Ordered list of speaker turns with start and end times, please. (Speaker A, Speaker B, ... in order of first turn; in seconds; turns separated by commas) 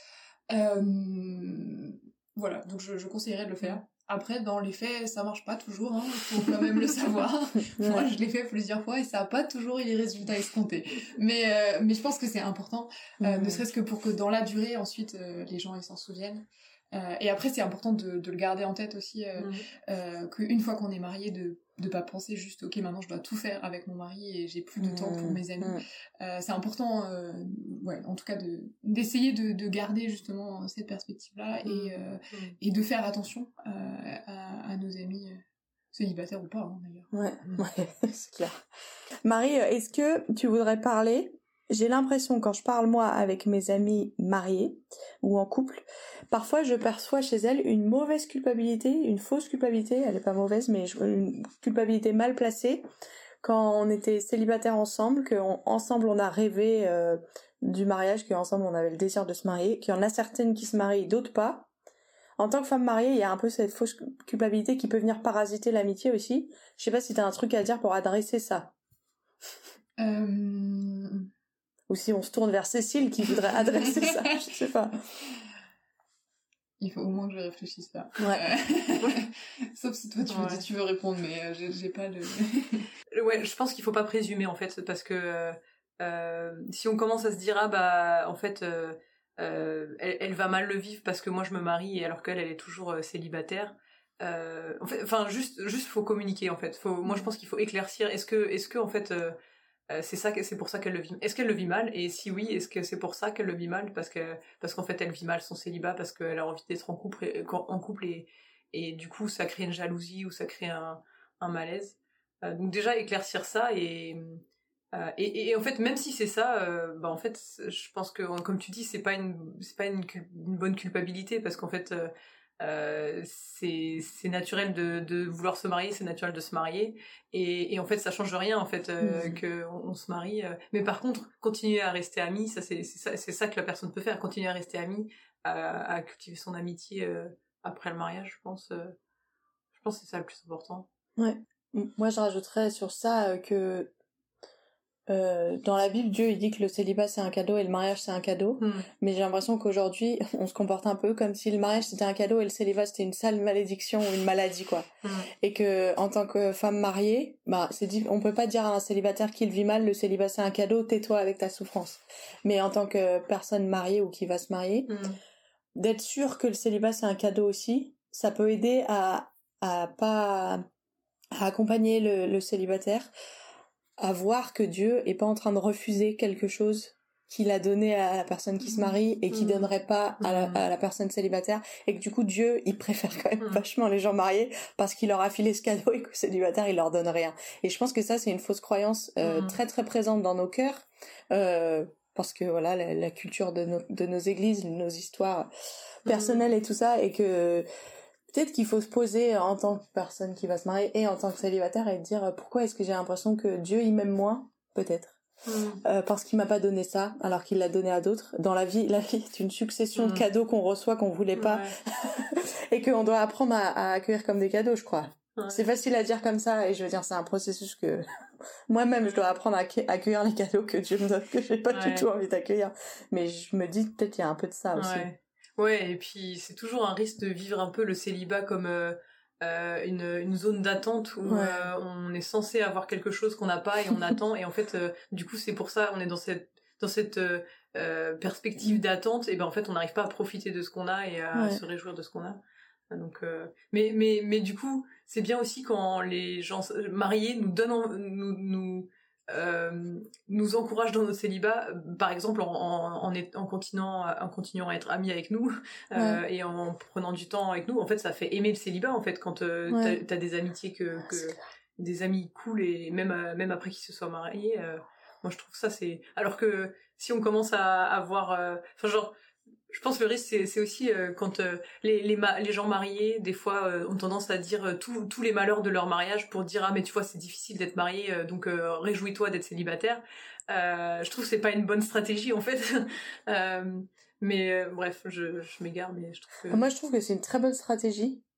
Speaker A: 0.5-37.6, Speaker B: 7.7-8.1, Speaker B: 13.2-13.6, Speaker C: 19.4-19.6, Speaker B: 24.8-25.8, Speaker C: 31.6-32.5, Speaker B: 37.1-38.6, Speaker B: 39.2-52.8, Speaker B: 53.4-61.7, Speaker B: 62.4-68.7, Speaker A: 70.0-71.3, Speaker B: 71.9-75.2, Speaker A: 73.8-74.2, Speaker A: 76.8-82.9, Speaker C: 80.3-80.6, Speaker C: 83.1-99.3, Speaker C: 99.9-138.9, Speaker B: 129.0-129.4, Speaker C: 139.7-140.9, Speaker B: 141.2-143.9, Speaker B: 145.1-154.9, Speaker C: 148.6-148.9, Speaker C: 155.0-155.3, Speaker B: 155.4-164.9, Speaker C: 164.9-165.2, Speaker B: 165.8-170.6, Speaker B: 171.3-173.1, Speaker B: 174.0-197.7, Speaker C: 179.3-180.6, Speaker C: 189.2-189.6, Speaker C: 196.1-196.4, Speaker B: 198.3-205.2, Speaker C: 205.4-205.8, Speaker B: 205.8-218.1, Speaker C: 209.9-210.2, Speaker C: 211.3-211.8, Speaker C: 215.3-215.6, Speaker B: 218.7-225.1, Speaker C: 221.7-222.1, Speaker C: 224.7-269.1, Speaker B: 231.2-231.7, Speaker B: 241.3-241.6, Speaker B: 255.9-256.2, Speaker B: 259.7-260.0, Speaker B: 261.1-261.4, Speaker C: 269.7-286.6, Speaker B: 286.5-288.2